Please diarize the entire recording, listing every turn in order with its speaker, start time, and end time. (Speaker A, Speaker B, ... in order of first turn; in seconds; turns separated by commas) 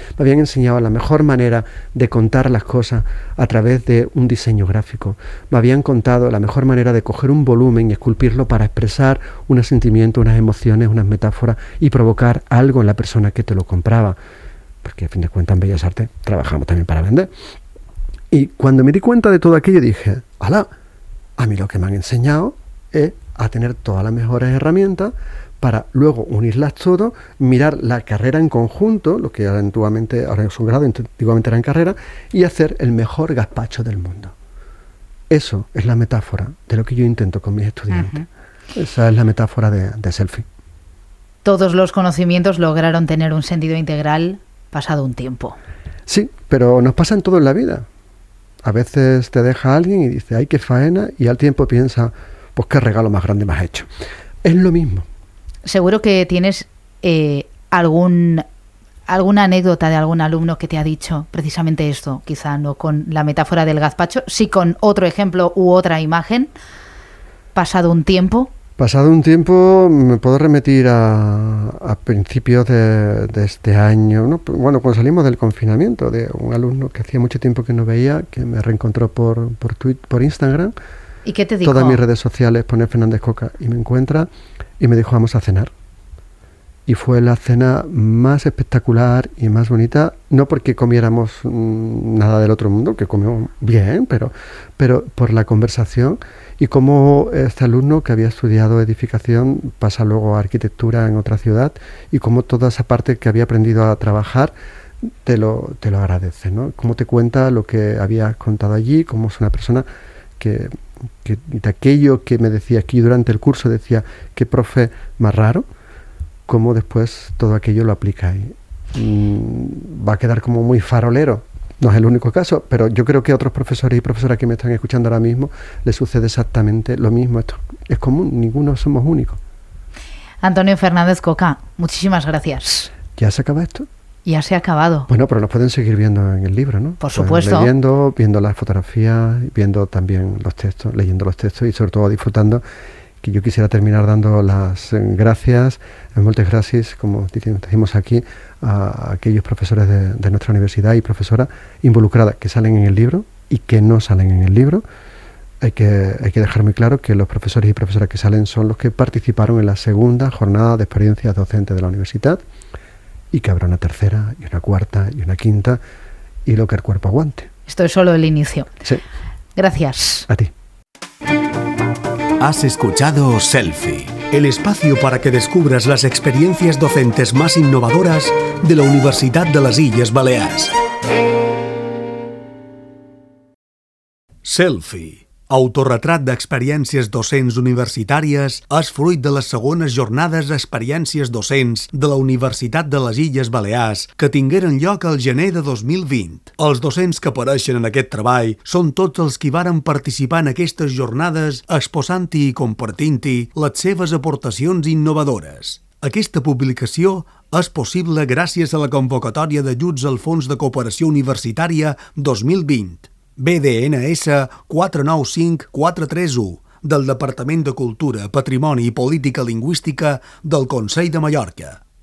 Speaker A: 0.2-14.2, Speaker A: 14.8-17.3, Speaker A: 18.3-20.7, Speaker A: 21.4-34.4, Speaker A: 35.3-38.2, Speaker B: 37.9-38.2, Speaker A: 38.8-40.5, Speaker B: 41.4-45.6, Speaker A: 46.1-47.9, Speaker A: 48.6-53.9, Speaker A: 54.4-55.0, Speaker B: 55.6-58.4, Speaker B: 59.1-66.5, Speaker B: 67.5-68.5, Speaker A: 68.8-80.7, Speaker B: 81.2-82.0, Speaker A: 81.6-85.7, Speaker A: 86.9-104.5, Speaker A: 105.2-109.9, Speaker A: 110.4-115.7, Speaker A: 116.5-129.4, Speaker B: 130.4-132.9, Speaker A: 133.1-133.9, Speaker B: 134.2-135.1, Speaker A: 135.1-142.6, Speaker B: 137.0-137.7, Speaker A: 143.2-154.8, Speaker A: 155.6-162.4, Speaker A: 163.3-165.8, Speaker A: 166.5-167.5, Speaker B: 167.7-168.7, Speaker B: 169.6-170.3, Speaker C: 172.4-180.7, Speaker C: 184.4-221.8